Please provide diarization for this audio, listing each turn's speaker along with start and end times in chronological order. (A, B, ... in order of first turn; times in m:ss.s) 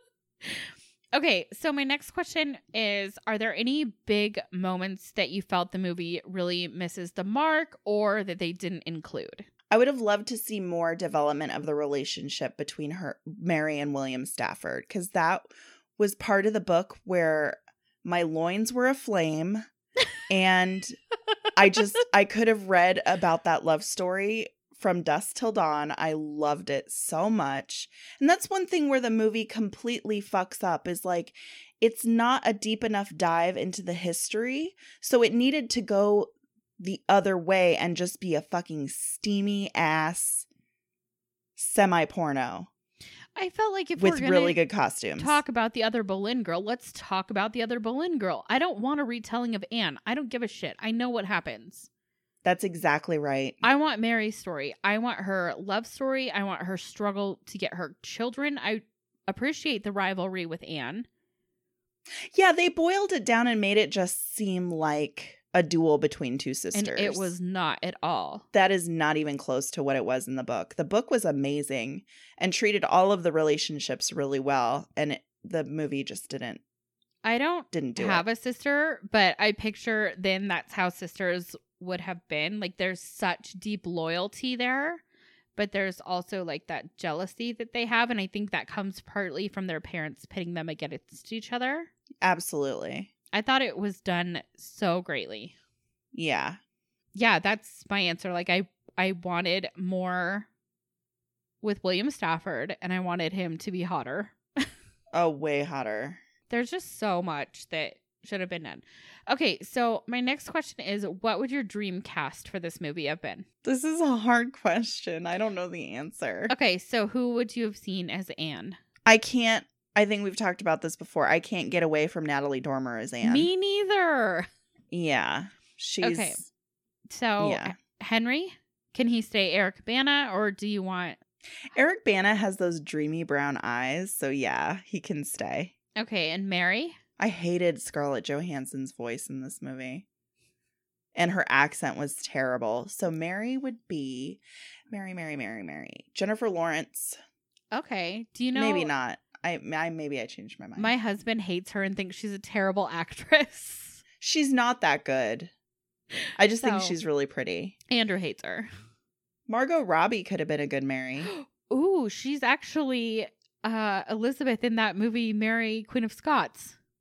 0:00.4-0:09.5 A
0:09.7-0:19.7 B
0:20.3-0:21.0 B
0:21.6-0:40.5 B
0:41.6-0:42.7 B
0:43.4-0:44.6 A
0:44.0-0:45.4 B
0:45.2-0:51.9 A
0:52.4-0:53.6 B
0:53.6-1:01.1 A
1:02.3-1:07.3 B
1:06.7-1:08.4 A
1:08.5-1:16.6 B
1:17.2-1:25.0 A
1:17.7-1:18.2 B
1:25.6-1:31.9 A
1:32.2-1:33.1 B
1:33.3-1:35.6 A
1:36.1-1:36.6 B
1:37.2-1:40.5 A
1:41.6-1:44.7 A
1:45.1-1:46.2 B
1:46.5-1:53.5 A
1:53.6-1:56.5 B
1:56.5-1:58.8 A
1:59.1-2:03.5 B
2:03.2-2:04.5 A
2:04.9-2:06.5 B
2:06.0-2:06.4 A
2:07.1-2:11.2 A
2:07.4-2:07.7 B
2:11.7-2:15.7 B
2:16.0-2:17.0 A
2:17.2-2:20.0 B
2:21.2-2:27.2 B
2:27.7-2:28.9 A
2:28.6-2:30.9 B
2:30.8-2:34.0 A
2:34.2-2:35.5 B
2:36.4-2:37.8 B
2:36.6-2:37.0 A
2:37.9-2:38.7 A
2:39.5-2:41.3 B
2:41.2-2:46.8 A